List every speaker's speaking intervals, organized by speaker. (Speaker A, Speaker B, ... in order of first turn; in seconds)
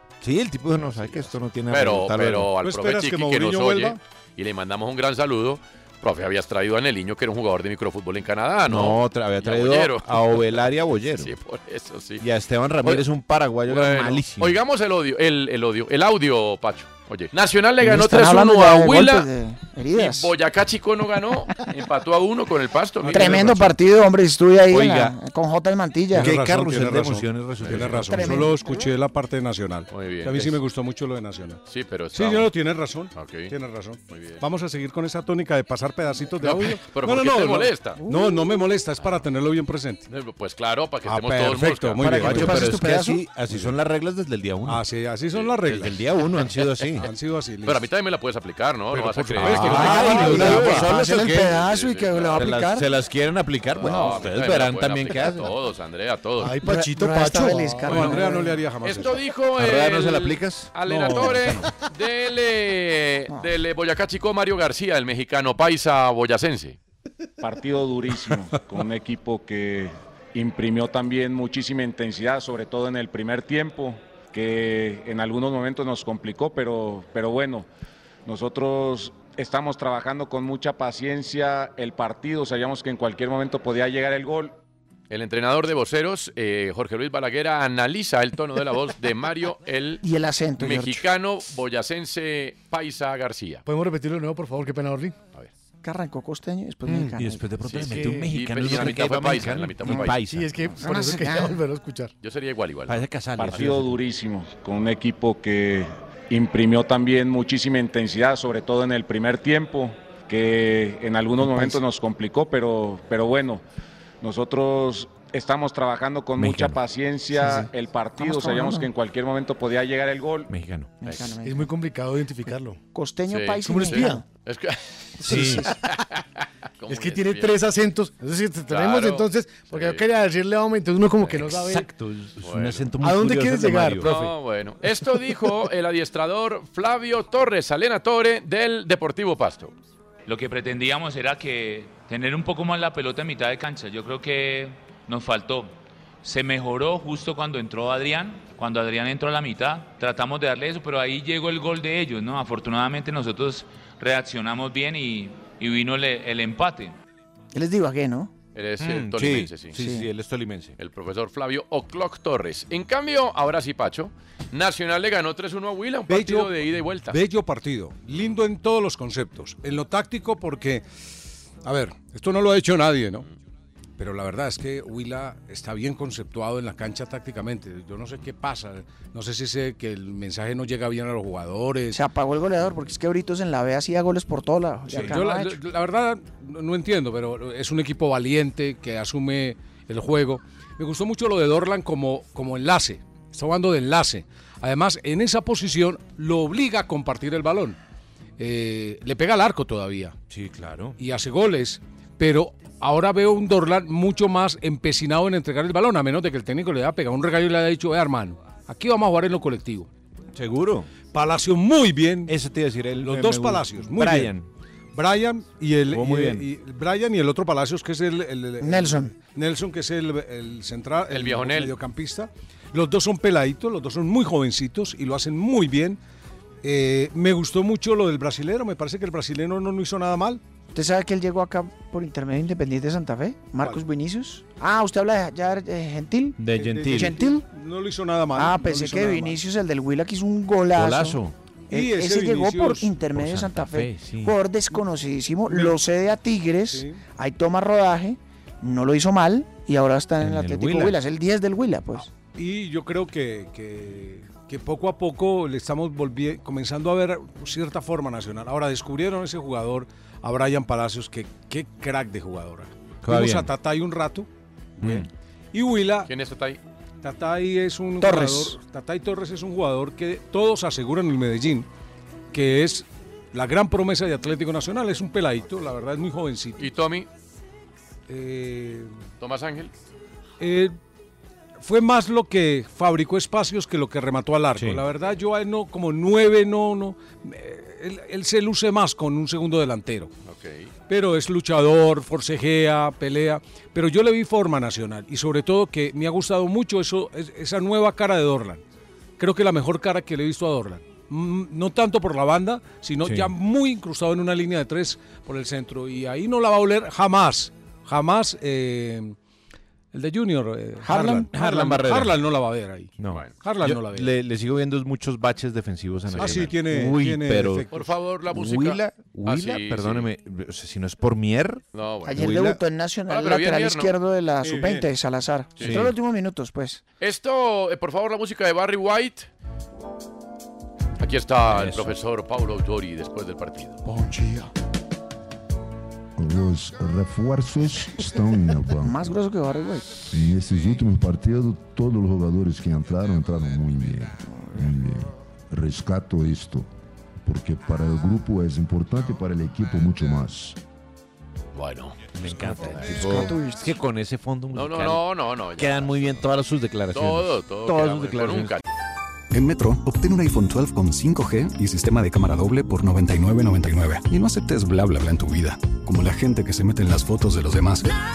Speaker A: 0.2-2.5, 8.7-11.3, 12.2-14.6, 24.7-25.2, 26.1-28.5, 41.1-44.8, 45.7-47.1, 49.4-51.7, 52.3-55.5, 59.6-60.7, 96.9-100.7, 102.9-104.0, 116.4-116.8, 120.5-120.9, 123.9-124.2, 125.2-125.7, 131.3-134.2, 158.8-160.8, 184.9-185.2, 200.3-201.0, 210.3-210.9, 212.3-214.5, 215.9-216.5, 236.4-237.2, 240.7-241.3, 243.1-244.4, 250.2-251.1, 263.0-263.5, 264.8-265.1, 284.6-284.9, 303.0-303.3, 311.3-312.2, 313.0-317.7, 318.2-322.6, 325.6-325.9, 331.5-331.9, 352.1-358.6
Speaker B: 0.8-10.7, 11.2-12.2, 13.7-19.3, 19.9-23.6, 27.6-27.9, 29.9-30.6, 31.7-32.5, 33.1-33.5, 34.1-34.4, 36.4-38.0, 40.1-42.6, 45.3-45.8, 46.4-47.1, 47.6-50.9, 51.4-52.5, 53.8-56.6, 58.8-66.8, 85.1-90.0, 90.6-93.6, 97.6-100.2, 102.2-103.1, 121.0-121.3, 123.3-124.8, 126.8-127.6, 128.7-130.1, 131.2-131.5, 132.4-132.9, 134.0-139.7, 158.6-159.8, 160.8-167.2, 168.1-168.4, 221.1-221.7, 266.1-266.6, 276.6-277.1, 279.2-279.7, 290.2-290.7, 313.1-313.3, 316.1-316.5, 317.7-320.1, 321.7-322.2, 323.1-323.9, 325.6-325.9, 327.0-329.3, 331.0-333.8, 351.5-352.0, 354.5-356.1, 356.9-358.6
Speaker C: 2.6-4.0, 23.0-23.7, 26.1-31.6, 32.1-40.1, 41.3-42.8, 43.5-43.7, 44.6-46.0, 47.0-47.8, 48.9-50.9, 57.9-59.2, 60.8-61.7, 166.1-170.8, 171.6-173.3, 174.0-182.0, 185.0-197.8, 198.4-200.2, 201.0-209.9, 211.1-212.3, 213.0-214.3, 214.9-226.0, 226.6-230.4, 233.6-233.8, 236.6-239.4, 241.7-243.0, 245.5-245.8, 246.7-247.0, 252.2-264.3, 264.8-266.1, 267.0-271.7, 272.3-276.7, 278.1-278.9, 280.4-280.8, 281.6-290.1, 290.9-298.6, 299.2-309.1, 309.9-314.1, 316.2-317.9, 324.4-324.9
Speaker D: 17.8-20.3, 23.1-26.3, 28.1-28.9, 42.0-43.2, 49.6-52.9, 56.6-58.6, 90.0-91.1, 95.8-97.5, 99.9-100.1, 100.8-101.6, 111.4-111.8, 117.3-118.9, 121.0-121.7, 122.9-124.2, 125.2-125.7, 157.5-158.3, 159.8-160.1, 181.9-185.6, 218.6-219.2, 230.7-237.4, 238.4-241.2, 241.7-252.1, 268.0-268.6, 310.8-311.3, 322.1-326.8, 333.9-334.5, 338.8-340.1, 344.3-344.7, 352.7-353.7
Speaker E: 56.4-58.4, 93.7-95.2, 97.9-98.3, 100.2-102.1, 121.4-122.8, 126.9-131.9, 133.0-134.2
Speaker F: 67.4-77.7, 78.3-84.5, 103.4-113.6, 114.2-120.5
Speaker G: 140.3-157.0
Speaker H: 336.2-339.1, 340.1-346.7, 347.2-350.6
Speaker I: 359.3-367.9